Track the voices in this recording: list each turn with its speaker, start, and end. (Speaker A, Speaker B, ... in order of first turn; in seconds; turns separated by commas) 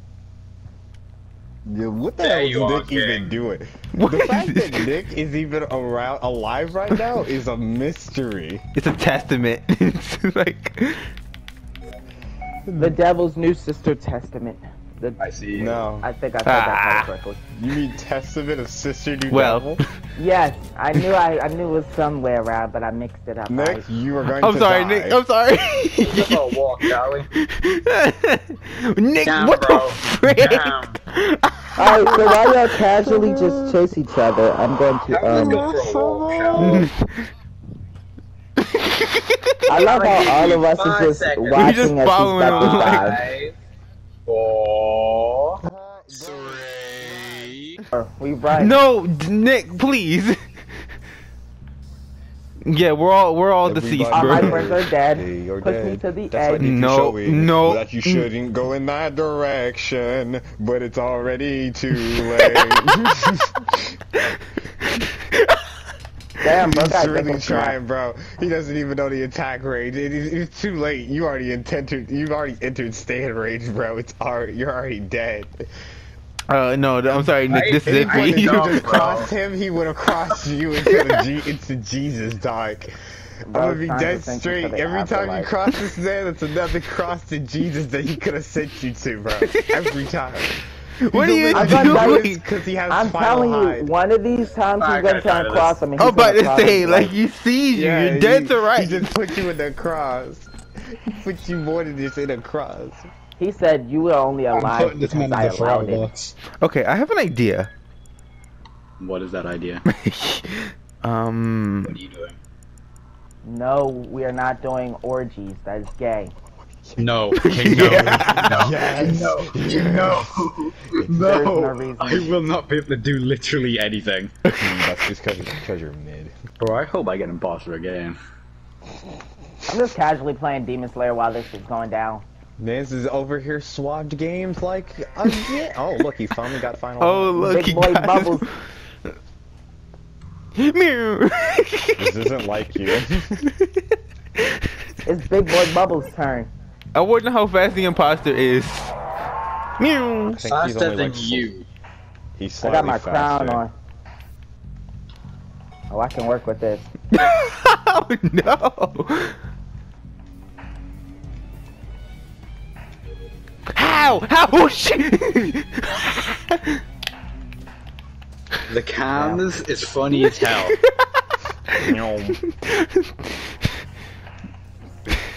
Speaker A: 1.7-8.6, Speaker B: 2.2-3.3, Speaker C: 4.0-4.9, Speaker C: 8.7-11.1, Speaker A: 12.7-12.9, Speaker D: 12.8-15.2, Speaker B: 15.2-15.8, Speaker A: 15.5-16.1, Speaker D: 15.9-17.4, Speaker C: 16.4-17.1, Speaker A: 17.5-19.8, Speaker C: 19.3-19.9, Speaker D: 20.2-23.8, Speaker A: 23.5-25.2, Speaker C: 24.4-26.5, Speaker B: 26.0-27.3, Speaker C: 27.3-32.3, Speaker B: 29.2-31.0, Speaker D: 31.8-35.7, Speaker A: 32.3-33.8, Speaker B: 35.1-36.9, Speaker A: 35.3-36.9, Speaker C: 36.6-37.0, Speaker C: 38.6-39.6, Speaker D: 39.7-43.2, Speaker B: 39.7-43.5, Speaker C: 41.5-43.2, Speaker B: 44.2-45.6, Speaker B: 46.1-47.8, Speaker D: 47.9-48.8, Speaker C: 48.5-50.4, Speaker C: 52.6-54.7, Speaker A: 53.6-63.9, Speaker D: 54.1-56.7, Speaker C: 56.6-58.2, Speaker C: 64.7-65.6, Speaker D: 66.4-67.8, Speaker A: 66.5-75.7, Speaker C: 76.5-79.2, Speaker B: 77.5-79.3, Speaker A: 77.7-82.9, Speaker C: 80.9-81.2, Speaker A: 83.5-90.6, Speaker D: 83.5-85.5, Speaker C: 89.5-89.8, Speaker C: 91.0-92.4, Speaker A: 91.1-93.9, Speaker D: 91.5-92.3, Speaker D: 92.9-97.1, Speaker B: 94.8-95.8, Speaker C: 96.0-99.1, Speaker A: 97.7-103.1, Speaker D: 103.4-106.1, Speaker B: 104.5-106.3, Speaker C: 106.6-107.7, Speaker B: 109.0-109.8, Speaker C: 109.8-112.0, Speaker B: 111.8-112.4, Speaker D: 113.4-116.3, Speaker B: 117.0-124.3, Speaker C: 117.3-118.7, Speaker A: 118.2-120.3, Speaker D: 121.1-122.3, Speaker A: 124.6-126.3, Speaker B: 126.6-128.2, Speaker D: 129.7-132.2, Speaker A: 132.6-137.5, Speaker C: 137.0-138.5, Speaker D: 137.4-138.4, Speaker C: 140.6-142.2, Speaker A: 142.0-143.4, Speaker C: 143.4-144.7, Speaker D: 145.1-146.5, Speaker C: 146.9-148.9, Speaker C: 149.8-150.4, Speaker A: 150.2-151.5, Speaker B: 150.5-151.7, Speaker A: 152.4-153.6, Speaker D: 152.6-153.7, Speaker D: 155.9-156.9, Speaker C: 157.1-159.3, Speaker C: 163.7-166.8, Speaker B: 168.7-170.8, Speaker C: 170.2-170.9, Speaker C: 171.7-173.3, Speaker A: 171.7-172.4